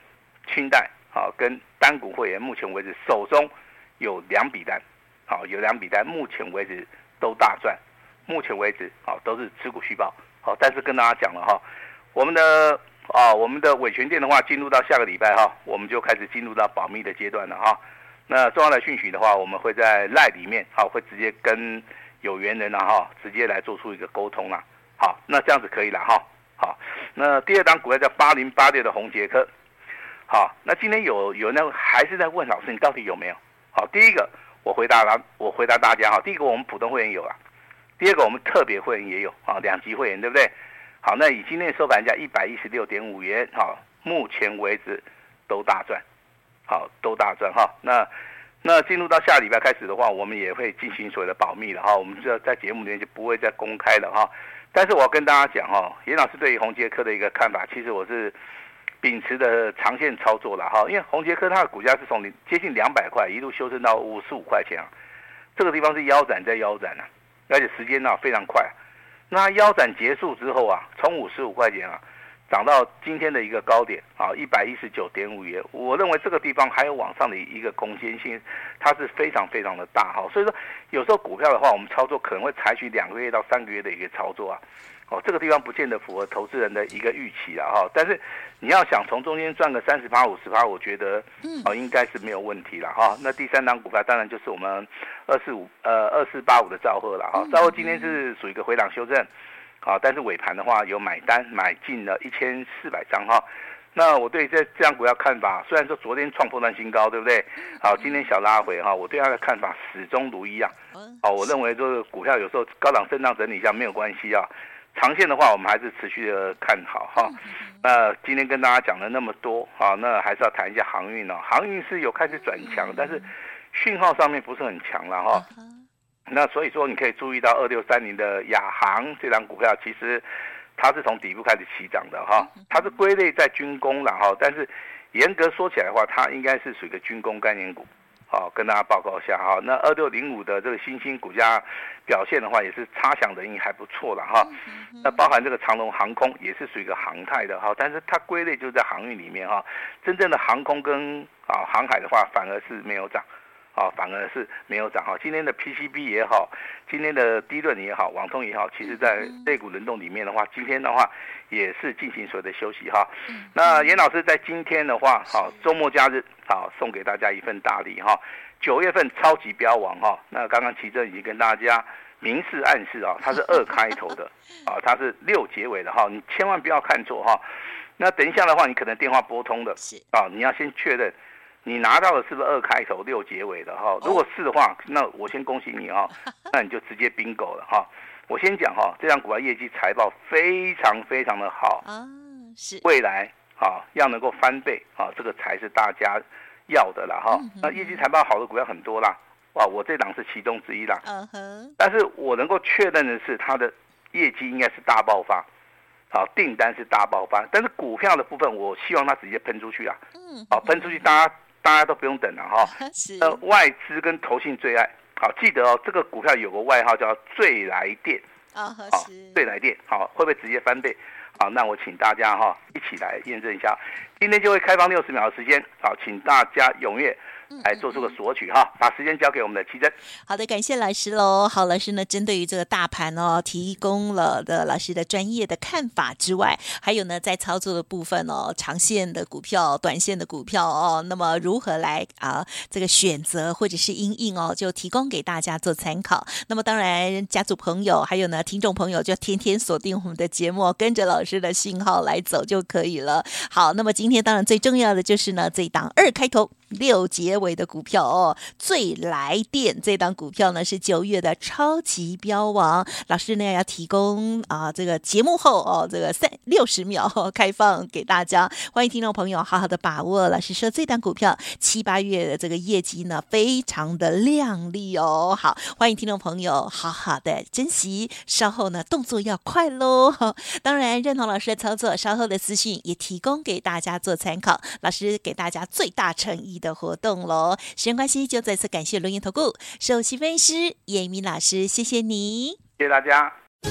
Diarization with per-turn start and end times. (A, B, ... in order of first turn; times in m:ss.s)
0:00.5-0:11.6 A
0:12.1-0:29.5 A
0:30.3-0:37.4 A
0:38.0-0:46.0 A
0:46.7-0:48.1 A
0:48.6-0:58.3 A
0:59.0-1:04.9 A
1:05.6-1:08.7 A
1:09.3-1:39.3 A
1:31.4-1:31.7 B
1:37.4-1:38.2 B
1:39.8-2:05.4 A
1:47.6-1:48.2 B
1:50.9-1:51.5 B
1:57.2-1:57.8 B
2:02.6-2:03.2 B
2:05.3-2:05.8 B
2:06.3-2:10.2 A
2:10.8-2:57.4 A
2:12.5-2:12.8 B
2:24.4-2:25.3 B
2:38.9-2:39.5 B
2:43.3-2:44.0 B
2:53.3-2:53.9 B
2:58.0-3:01.1 A
3:01.6-3:11.8 A
3:11.8-3:12.8 B
3:12.8-3:21.0 A
3:17.3-3:18.1 B
3:21.0-3:21.7 B
3:21.8-3:25.4 A
3:26.1-3:38.2 A
3:30.1-3:31.1 B
3:32.7-3:33.4 B
3:38.5-3:39.4 B
3:38.9-3:49.9 A
3:47.5-3:48.1 B
3:50.3-4:52.6 B
4:52.8-4:53.3 A